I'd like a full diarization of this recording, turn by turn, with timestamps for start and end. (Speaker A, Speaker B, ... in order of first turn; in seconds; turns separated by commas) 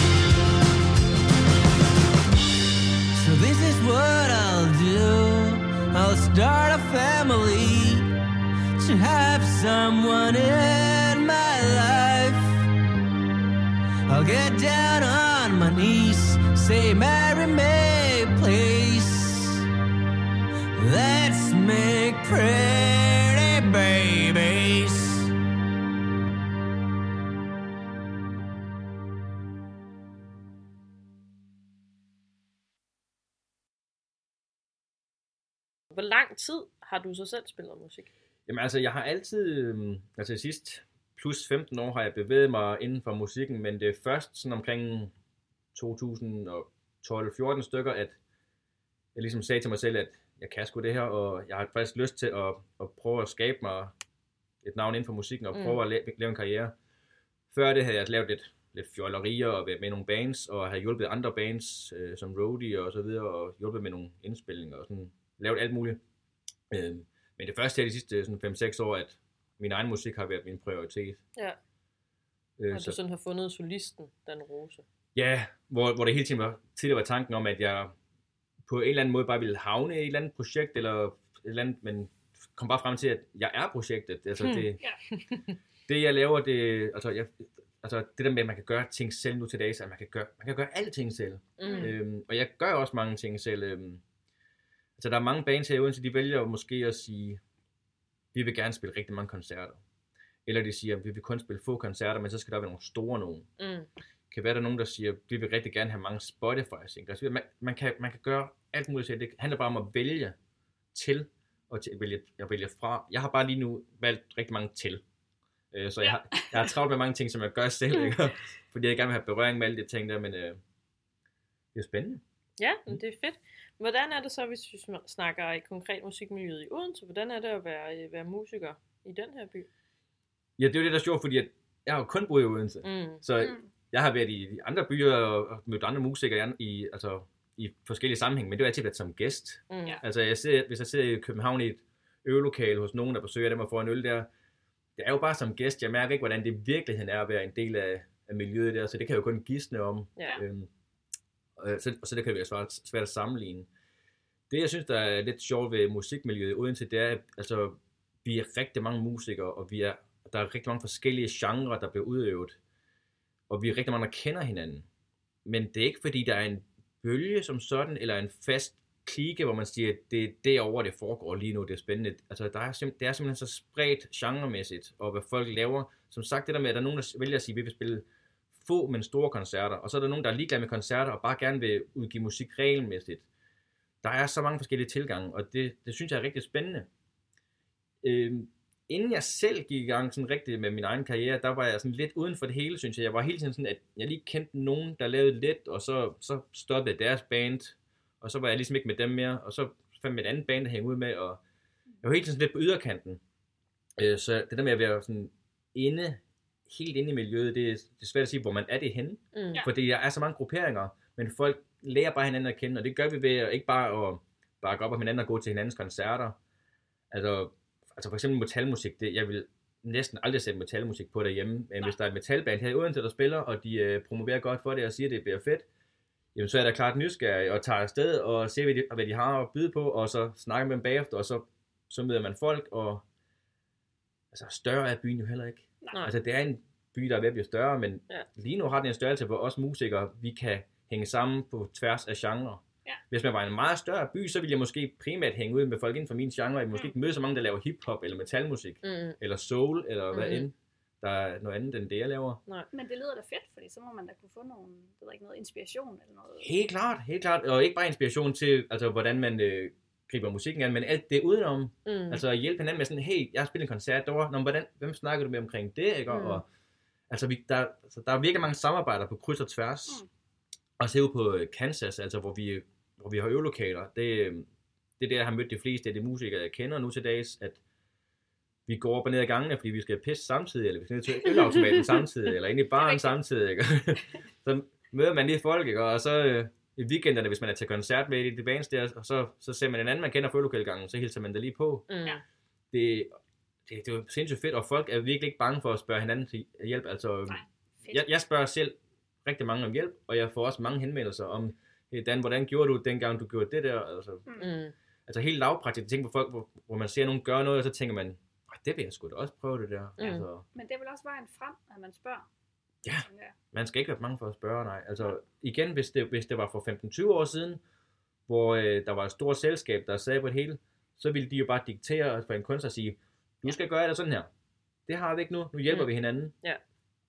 Speaker A: 3.1-8.1, Speaker A: 8.8-12.7, Speaker A: 14.1-19.7, Speaker A: 20.8-25.3, Speaker B: 35.9-38.1, Speaker C: 38.5-45.1, Speaker C: 45.7-48.2, Speaker C: 49.1-53.9, Speaker C: 54.6-56.7, Speaker B: 55.5-55.8, Speaker C: 57.5-66.0, Speaker C: 66.7-71.2, Speaker C: 72.6-73.0, Speaker B: 72.7-74.8, Speaker C: 75.2-77.9, Speaker C: 78.7-84.8, Speaker B: 84.4-85.4, Speaker C: 85.9-94.0, Speaker B: 91.6-91.9, Speaker D: 91.6-91.9, Speaker C: 95.0-97.4, Speaker C: 98.3-99.8, Speaker C: 100.5-103.5, Speaker B: 103.6-103.9, Speaker C: 104.3-110.3, Speaker C: 110.9-115.0, Speaker C: 115.7-120.6, Speaker C: 121.7-122.2, Speaker B: 122.6-129.7, Speaker C: 130.6-144.3, Speaker B: 132.8-133.2, Speaker D: 133.4-133.6, Speaker B: 139.7-140.0, Speaker C: 145.0-150.7, Speaker C: 151.6-153.7, Speaker C: 154.5-162.6, Speaker C: 163.5-164.9, Speaker C: 165.4-178.1, Speaker C: 178.6-183.2, Speaker C: 184.0-186.9, Speaker C: 188.0-201.4, Speaker C: 202.0-203.2, Speaker C: 204.0-216.4, Speaker B: 209.3-209.7, Speaker C: 217.1-225.7, Speaker C: 226.3-233.0, Speaker C: 234.3-252.4, Speaker B: 248.8-249.2, Speaker B: 250.1-250.5, Speaker D: 252.7-256.5, Speaker C: 256.4-266.4, Speaker B: 261.9-262.2, Speaker B: 266.1-266.4, Speaker C: 267.1-270.0, Speaker C: 270.8-274.5, Speaker C: 275.0-277.6, Speaker C: 278.7-291.9, Speaker D: 282.8-283.1, Speaker B: 291.9-292.2, Speaker C: 292.7-293.1, Speaker C: 293.7-304.3, Speaker D: 297.3-298.0, Speaker B: 304.4-304.7, Speaker C: 305.1-310.4, Speaker B: 310.0-310.3, Speaker D: 310.5-312.3, Speaker C: 312.8-317.6, Speaker D: 313.0-313.3, Speaker C: 318.3-324.3, Speaker C: 324.9-326.3, Speaker B: 325.7-326.6